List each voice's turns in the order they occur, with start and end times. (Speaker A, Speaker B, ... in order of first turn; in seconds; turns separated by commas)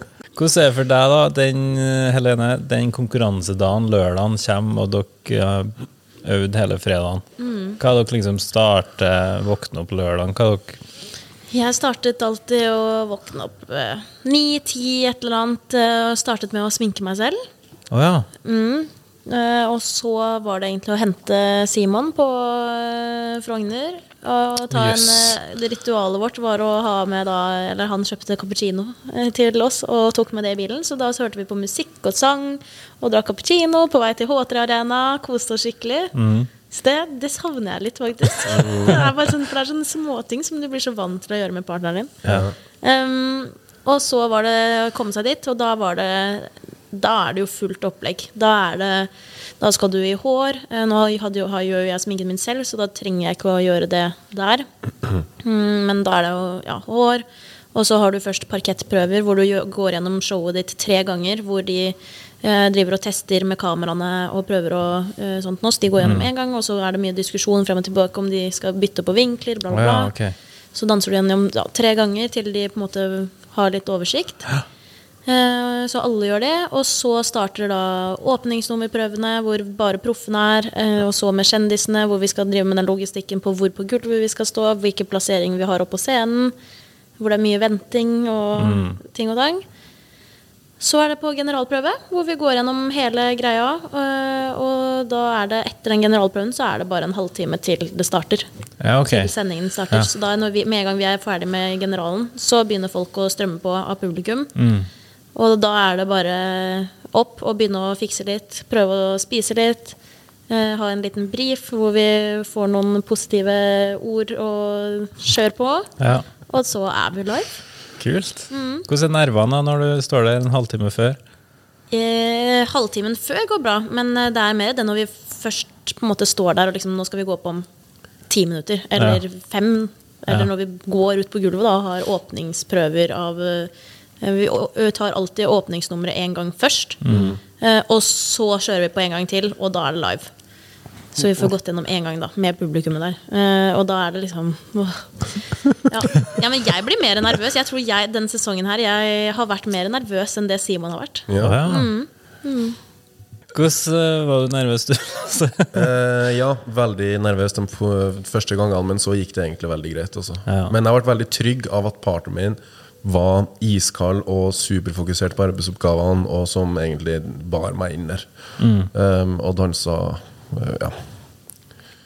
Speaker A: 0.3-7.2, Speaker B: 7.4-7.8, Speaker A: 7.8-10.8, Speaker B: 11.5-17.4, Speaker A: 17.9-18.3, Speaker B: 18.4-36.1, Speaker A: 24.7-25.4, Speaker A: 36.1-36.5, Speaker B: 36.7-42.2, Speaker C: 38.5-39.0, Speaker C: 42.2-42.5, Speaker B: 42.8-54.7, Speaker B: 55.4-70.1, Speaker A: 66.0-66.3, Speaker A: 69.7-70.3, Speaker B: 70.7-74.5, Speaker B: 75.2-86.5, Speaker B: 87.2-89.6, Speaker A: 88.6-89.0, Speaker B: 90.8-98.5, Speaker A: 98.8-99.3, Speaker B: 99.0-104.5, Speaker A: 104.5-104.9, Speaker B: 105.3-110.0, Speaker B: 110.5-115.9, Speaker A: 116.0-116.2, Speaker B: 116.5-117.6, Speaker A: 118.0-121.2, Speaker B: 118.5-118.8, Speaker B: 121.9-127.7, Speaker B: 128.3-137.0, Speaker A: 137.0-137.3, Speaker C: 137.1-137.4, Speaker B: 137.6-140.3, Speaker B: 141.1-152.8, Speaker C: 151.3-151.7, Speaker A: 151.4-151.9, Speaker A: 153.5-155.9, Speaker C: 155.7-168.3, Speaker A: 160.5-160.7, Speaker A: 168.6-168.9, Speaker C: 168.9-171.0